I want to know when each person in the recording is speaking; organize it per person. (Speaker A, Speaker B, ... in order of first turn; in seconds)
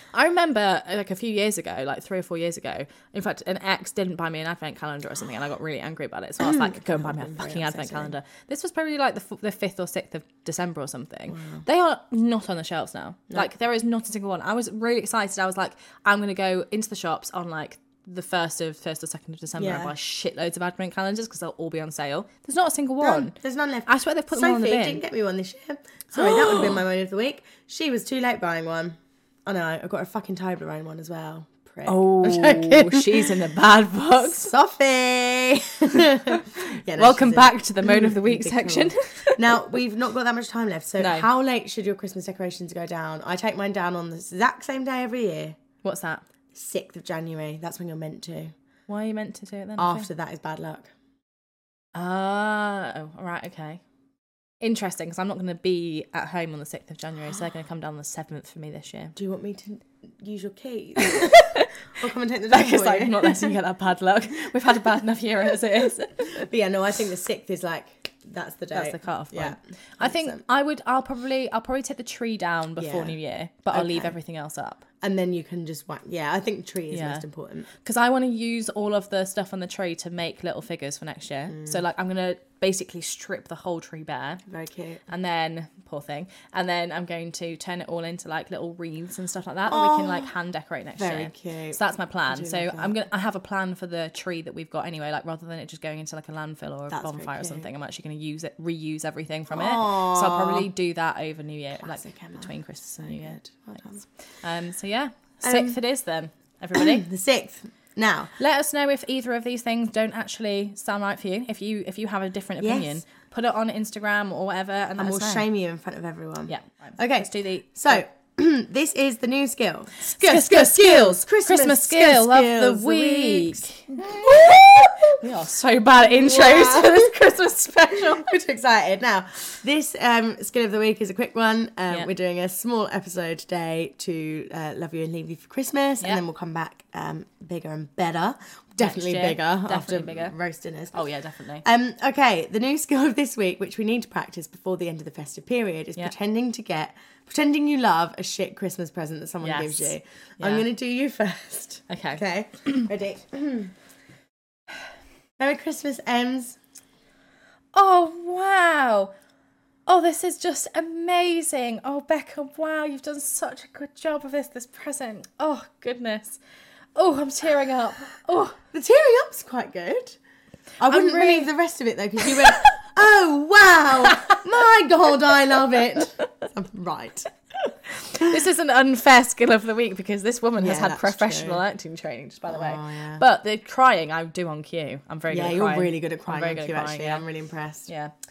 Speaker A: 0.1-23.4, 23.9-25.0, 26.1-26.8, 31.9-34.5, 36.3-39.4, 41.0-41.3, 45.8-46.2, 48.9-50.1, 51.9-53.8, 54.6-59.2, 61.0-61.7, 62.5-66.5, 68.7-74.9, 76.9-77.2, 77.8-84.4, 85.1-103.8, 104.4-107.0, 108.4-115.5, 116.5-118.0, 120.0-128.3, 138.8-140.3, 140.9-141.7, 149.4-150.7, 151.9-152.9, 157.7-159.1, 159.9-166.4, 166.9-168.6, 170.9-171.5, 172.2-172.5, 178.0-187.2, 187.9-188.1
Speaker B: 6.4-8.1, 11.3-11.7, 19.6-19.9, 23.0-33.3, 34.3-45.6, 46.5-48.5, 49.8-50.9, 59.2-63.6, 66.3-70.4, 72.8-73.2, 73.7-74.1, 75.0-77.7, 81.5-81.8, 84.5-85.0, 89.7-90.3, 91.0-93.0, 96.9-97.7, 99.5-100.7, 101.8-104.0, 105.4-105.8, 106.8-108.3, 112.6-113.0, 115.0-125.2, 126.0-127.1, 127.9-141.0, 141.6-153.7, 155.4-156.6, 168.7-170.2, 170.8-177.3, 180.6-181.6, 182.5-183.2, 185.3-187.9